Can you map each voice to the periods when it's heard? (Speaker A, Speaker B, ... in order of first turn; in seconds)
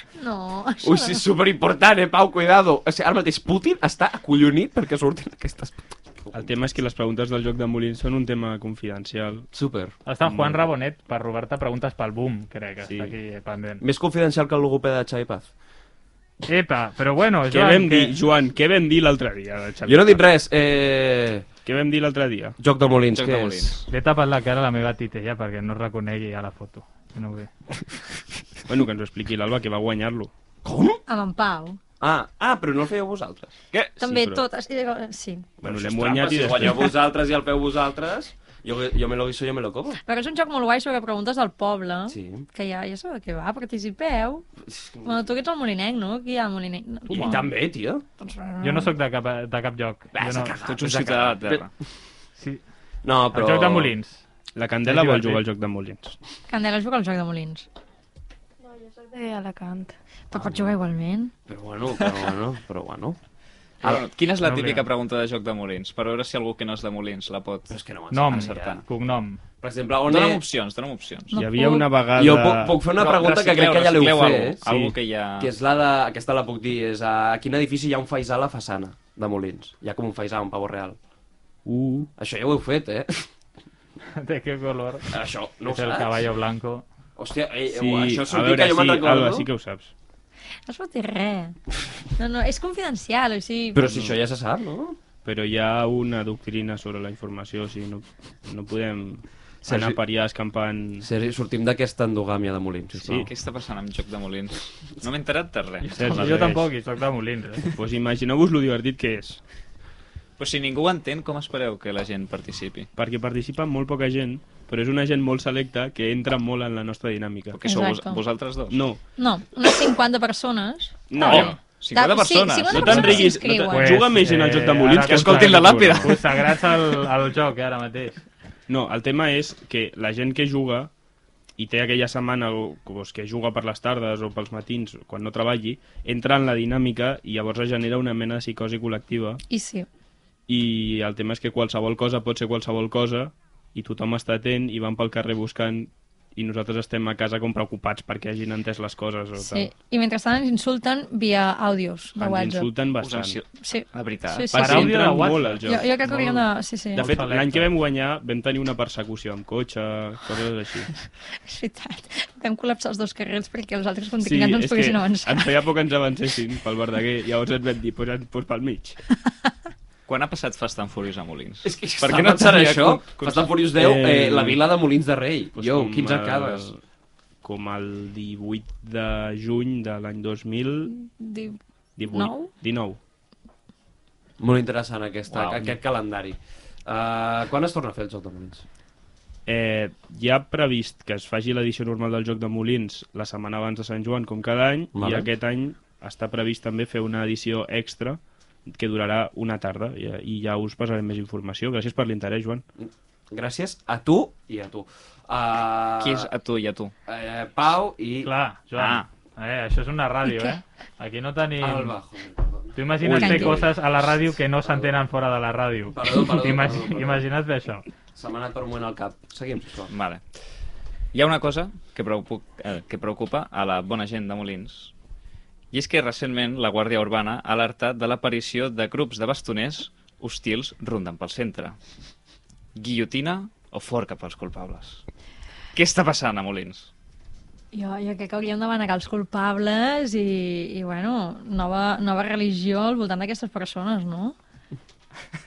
Speaker A: 0.1-1.2, 31.1-31.8, 34.0-35.5, 40.0-44.5, 45.0-47.4, 48.2-48.9, 56.5-57.6, 58.6-61.3, 71.3-71.9, 90.7-91.5, 92.2-93.8, 117.7-118.2, 119.2-124.0, 139.5-139.9, 149.4-152.7, 153.6-155.1, 155.6-157.0, 161.3-165.6, 180.9-181.6, 182.1-182.5, 210.3-210.6, 213.1-213.6, 237.7-244.3
Speaker B: 0.8-6.5, 9.5-10.0, 13.8-15.5, 19.9-21.4, 22.6-23.8, 30.6-31.0, 32.0-33.5, 35.6-40.0, 42.1-42.5, 44.6-45.2, 47.1-48.0, 50.1-51.6, 53.0-53.9, 60.4-60.7, 61.5-63.2, 67.7-68.8, 69.6-70.4, 72.1-74.6, 75.4-81.0, 82.2-83.3, 85.1-86.2, 87.2-89.5, 93.7-95.0, 99.6-100.0, 101.0-103.3, 171.6-176.8, 184.4-188.6, 194.9-195.3, 202.8-206.3, 207.1-208.3, 211.6-213.7, 214.6-214.9, 215.9-217.2, 218.1-219.9
Speaker C: 6.3-9.5, 10.2-10.7, 12.8-13.2, 17.5-20.2, 21.6-22.6, 28.7-30.3, 33.7-34.4, 35.6-36.9, 54.5-56.1, 71.4-72.8, 74.6-75.0, 81.6-82.1, 87.7-89.9, 93.8-94.2, 95.2-101.1, 102.9-103.3, 105.9-106.7, 107.6-109.4, 113.0-117.6, 118.7-119.0, 121.1-121.6, 122.7-126.2, 128.7-130.9, 131.6-139.4, 140.5-149.7, 152.2-153.4, 154.5-160.9, 164.2-169.0, 173.8-174.6, 175.6-176.8, 177.4-180.9, 182.0-183.0, 189.4-202.6
Speaker D: 10.0-13.8, 16.4-18.2, 23.9-27.5, 47.1-47.4, 48.6-50.5, 53.3-54.2, 54.8-55.4, 64.4-64.9, 68.1-69.4, 84.2-86.8, 105.9-107.7, 123.7-128.2, 154.5-156.2, 156.9-157.7, 208.2-211.9, 212.7-217.8
Speaker E: 23.1-23.9, 50.6-51.7, 63.8-68.8, 70.1-71.4, 73.0-75.5, 103.2-106.5, 110.4-112.9, 117.5-118.8, 121.2-123.3, 125.1-126.5, 153.0-154.9, 170.1-173.5, 185.3-185.7, 206.0-206.9, 208.8-209.1, 219.9-220.2, 221.1-224.9, 225.7-231.8, 232.7-235.0, 235.7-236.9